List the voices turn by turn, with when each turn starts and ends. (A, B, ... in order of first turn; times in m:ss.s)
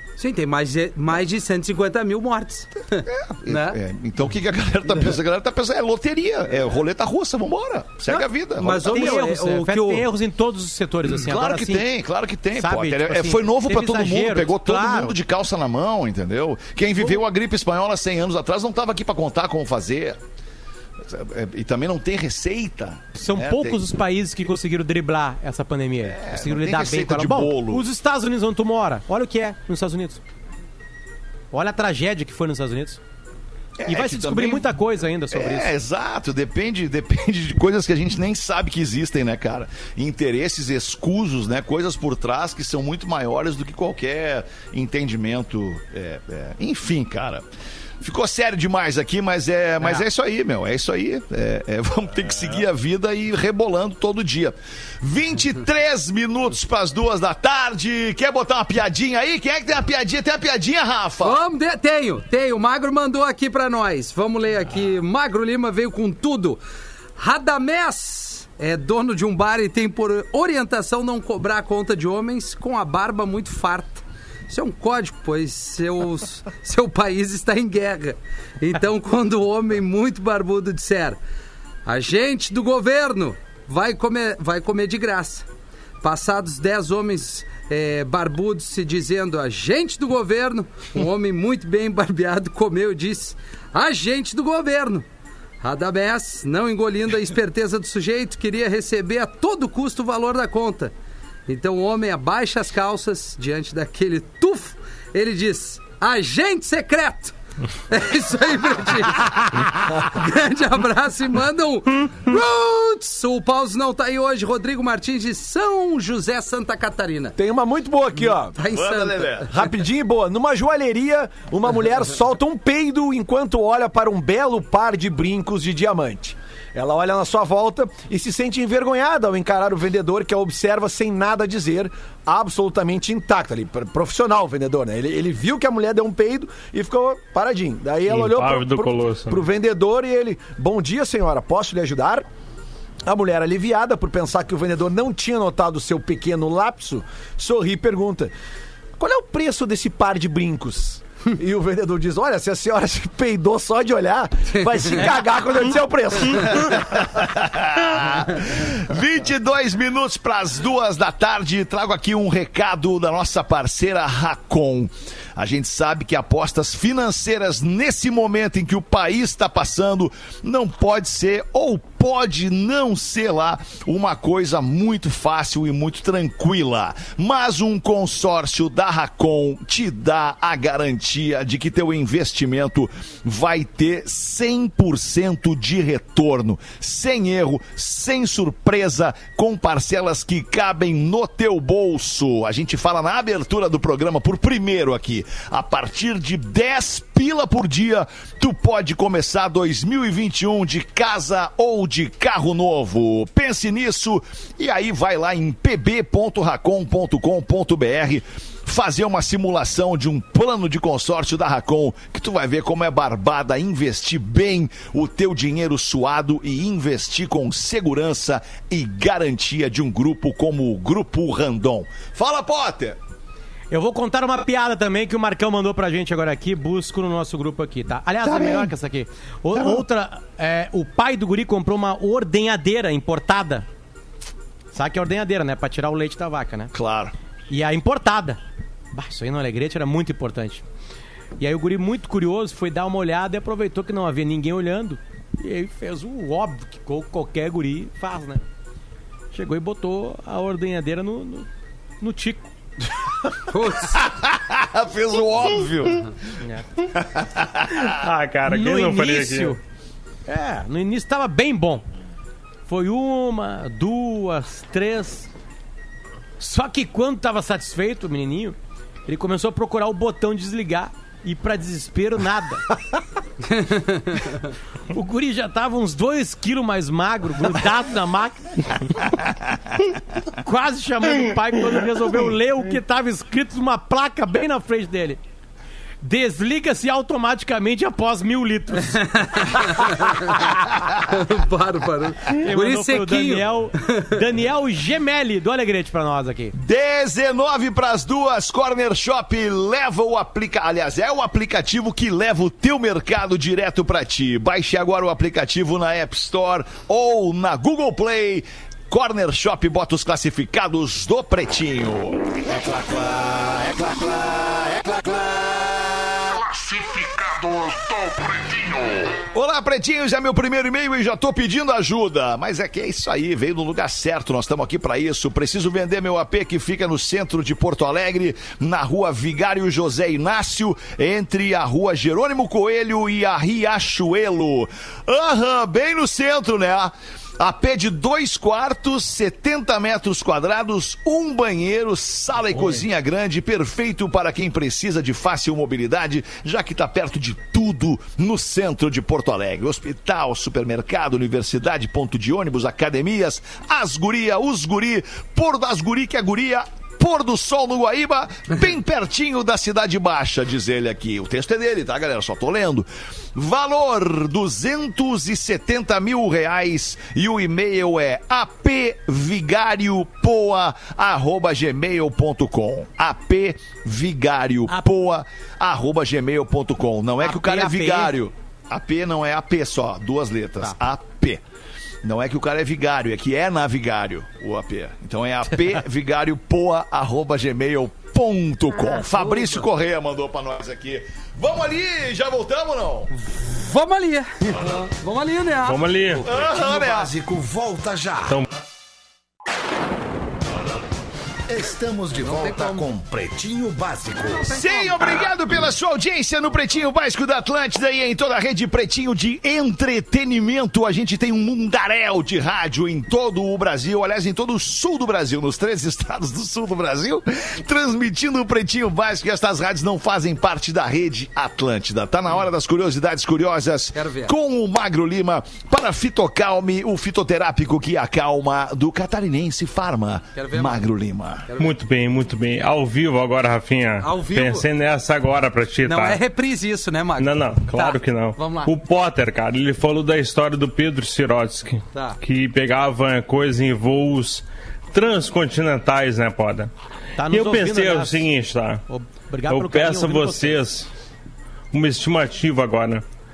0:00.2-0:03.8 A
0:03.0-0:09.2 B
0:08.1-0:10.0 A
0:08.8-0:11.8 C
0:11.1-0:20.2 B
0:12.5-0:15.1 C
0:21.0-0:23.8 B
0:23.1-0:30.2 C
0:26.0-0:27.8 B
0:31.5-0:33.0 C
0:33.8-0:34.7 B
0:33.9-0:35.7 C
0:35.3-0:47.4 B
0:48.0-1:01.4 B
1:01.2-1:06.6 A
1:07.2-1:21.2 A
1:21.8-1:25.4 A
1:26.0-1:35.0 A
1:35.6-1:40.9 A
1:41.5-1:47.3 A
1:47.9-1:57.3 A
1:57.4-1:58.6 D
1:58.6-1:59.5 A
1:58.7-1:59.5 B
1:59.5-2:22.2 D
2:18.1-2:19.4 E
2:23.0-2:28.3 D
2:29.0-2:36.7 D
2:34.7-2:35.0 A
2:36.4-3:43.0 B
3:43.7-3:53.6 C
3:48.2-3:48.7 B
3:49.5-3:49.8 B
3:54.7-3:56.7 C
3:56.7-3:57.1 B
3:57.5-3:58.4 C
3:58.9-4:00.6 C
4:01.4-4:08.4 C
4:09.3-4:11.5 C
4:12.0-4:12.5 C
4:13.5-4:13.9 A
4:13.8-4:16.1 B
4:16.9-4:18.0 B
4:17.8-4:19.6 E
4:18.5-4:19.6 C
4:20.2-4:21.8 C
4:22.7-4:25.3 C
4:26.4-4:28.6 C
4:29.1-4:32.8 C
4:33.4-4:34.4 A
4:34.9-4:38.9 C
4:40.3-4:45.2 C
4:46.0-4:49.7 C
4:48.9-4:50.4 A
4:50.5-4:51.1 B
4:51.1-4:54.1 A
4:52.4-4:56.5 C
4:56.5-5:12.2 B
5:12.4-5:18.8 F
5:19.2-6:21.4 B
6:17.2-6:18.1 C
6:22.0-6:33.1 B
6:28.9-6:29.6 A
6:33.2-6:35.8 A
6:35.6-6:36.2 E
6:36.2-6:38.4 F
6:36.2-6:37.1 B
6:41.5-6:44.5 F
6:42.2-6:42.9 A
6:44.3-6:45.3 A
6:44.5-7:11.5 B
7:03.9-7:04.3 A
7:10.4-7:10.8 A
7:11.5-7:11.7 A
7:11.6-7:16.2 E
7:14.0-7:14.6 A
7:15.8-7:18.7 A
7:17.2-7:26.7 E
7:21.9-7:22.2 A
7:27.2-7:28.3 C
7:27.3-7:28.8 E
7:28.9-7:30.6 C
7:29.5-7:30.9 E
7:31.7-7:33.0 E